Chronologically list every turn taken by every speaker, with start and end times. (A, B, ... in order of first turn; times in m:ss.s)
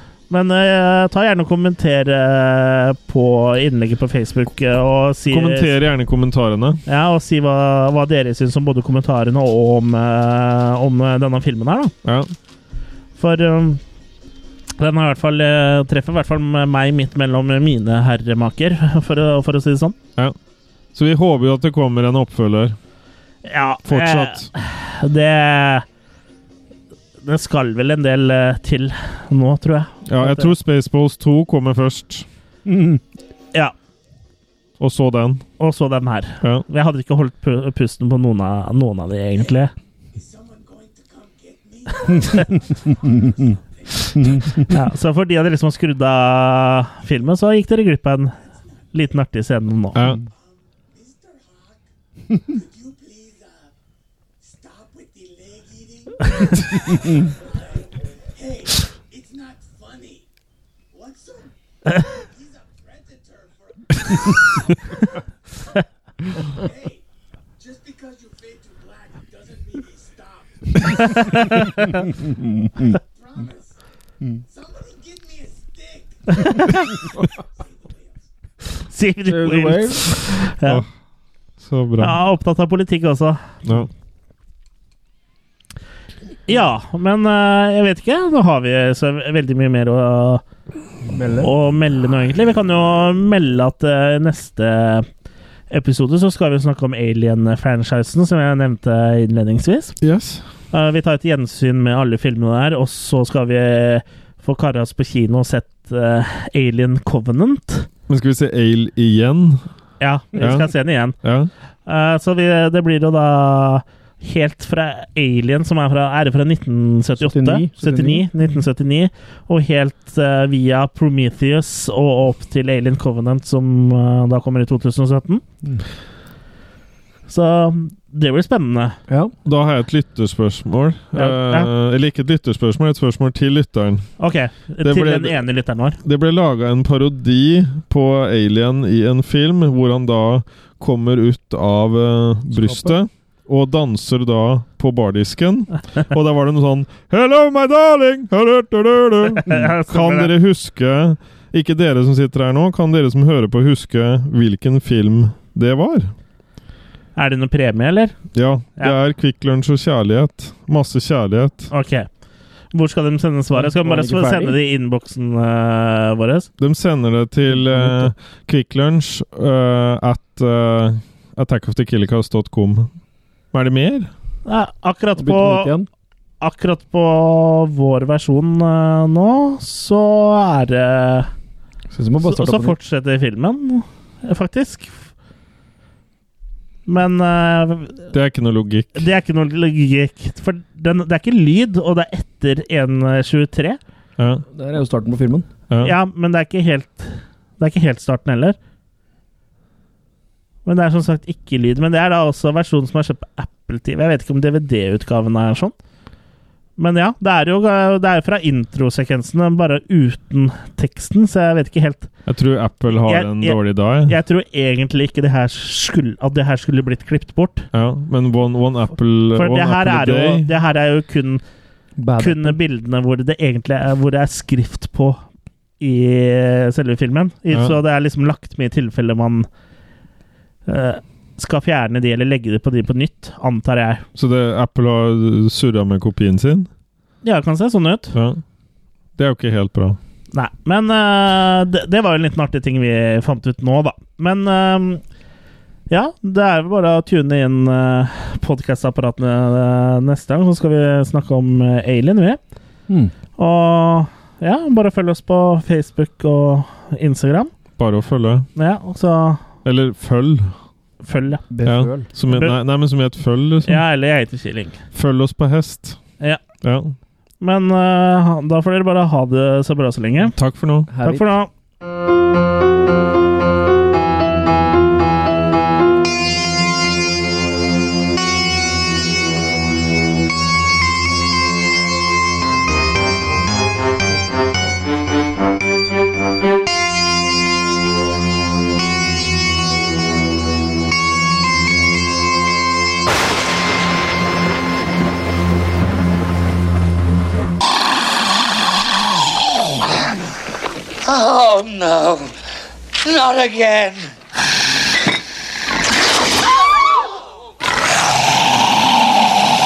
0:00.3-0:05.7 A
0:05.3-0:06.8 B
0:06.9-0:11.9 A
0:12.0-0:12.3 B
0:13.2-0:13.8 A
0:14.8-0:20.0 A
0:20.9-0:22.8 B
0:23.4-0:25.8 A
0:23.9-0:24.5 B
0:27.2-0:30.5 A
0:30.1-0:32.2 B
0:32.6-0:33.0 C
0:34.8-0:35.4 B
0:35.6-0:39.7 A
0:40.1-0:44.7 D
0:44.2-0:44.7 C
0:44.7-0:48.4 A
0:48.6-0:48.9 D
0:48.9-0:50.0 A
0:49.9-0:50.2 B
0:50.2-0:53.7 D
0:54.4-1:00.3 D
1:00.9-1:05.2 D
1:05.7-1:07.0 D
1:07.6-1:12.2 D
1:11.3-1:12.0 A
1:12.3-1:13.0 C
1:12.8-1:13.8 D
1:14.3-1:18.3 D
1:16.4-1:16.9 A
1:18.9-1:20.8 A
1:19.2-1:20.3 C
1:20.6-1:20.9 B
1:21.6-1:22.2 B
1:22.0-1:23.5 A
1:26.5-1:30.4 A
1:31.1-1:31.5 C
1:31.4-1:35.0 A
1:35.7-1:40.0 A
1:40.0-1:40.4 B
1:40.7-1:47.9 A
1:48.1-1:49.7 B
1:50.0-1:51.2 A
1:50.4-1:50.7 B
1:51.2-1:51.5 B
1:51.8-2:05.4 A
1:57.2-1:58.3 C
2:07.3-2:09.0 A
2:09.1-2:09.3 C
2:09.4-2:14.2 B
2:11.1-2:11.7 A
2:14.2-2:16.0 A
2:14.8-2:15.4 B
2:16.0-2:36.1 B
2:22.5-2:22.9 C
2:29.4-2:30.3 A
2:37.2-2:38.2 A
2:38.3-2:41.7 B
2:41.7-2:42.1 A
2:42.7-2:46.5 A
2:43.5-2:44.6 C
2:46.6-2:52.9 B
2:47.5-2:48.1 C
2:53.5-2:54.1 B
2:54.4-2:55.7 A
2:55.2-2:55.9 C
2:56.4-3:01.3 A
3:01.9-3:02.8 C
3:02.2-3:05.0 A
3:06.8-3:08.1 A
3:08.1-3:09.0 B
3:08.9-3:13.8 A
3:14.2-3:14.4 B
3:14.5-3:15.5 C
3:15.8-3:18.6 A
3:20.6-3:25.7 A
3:26.8-3:32.1 A
3:32.2-3:34.2 B
3:33.0-3:37.7 A
3:37.7-3:40.5 B
3:39.4-3:41.4 A
3:42.0-3:42.6 C
3:42.2-3:45.2 A
3:45.8-3:49.5 A
3:47.5-3:47.8 B
3:50.7-3:54.0 A
3:54.1-3:56.7 B
3:57.2-3:58.1 A
3:58.1-3:58.4 B
3:59.2-4:00.0 B
4:00.3-4:05.0 A
4:05.9-4:12.4 A
4:13.4-4:17.5 A
4:17.8-4:18.5 B
4:18.6-4:19.4 A
4:19.6-4:20.6 B
4:21.0-4:21.4 A
4:21.5-4:22.1 C
4:21.6-4:23.8 B
4:22.3-4:22.6 A
4:23.7-4:24.8 A
4:24.9-4:26.0 B
4:26.6-4:26.9 B
4:27.4-4:30.4 A
4:30.3-4:30.9 B
4:30.9-4:31.2 C
4:31.0-4:31.5 A
5:01.0-5:02.4 E
5:03.0-5:04.1 E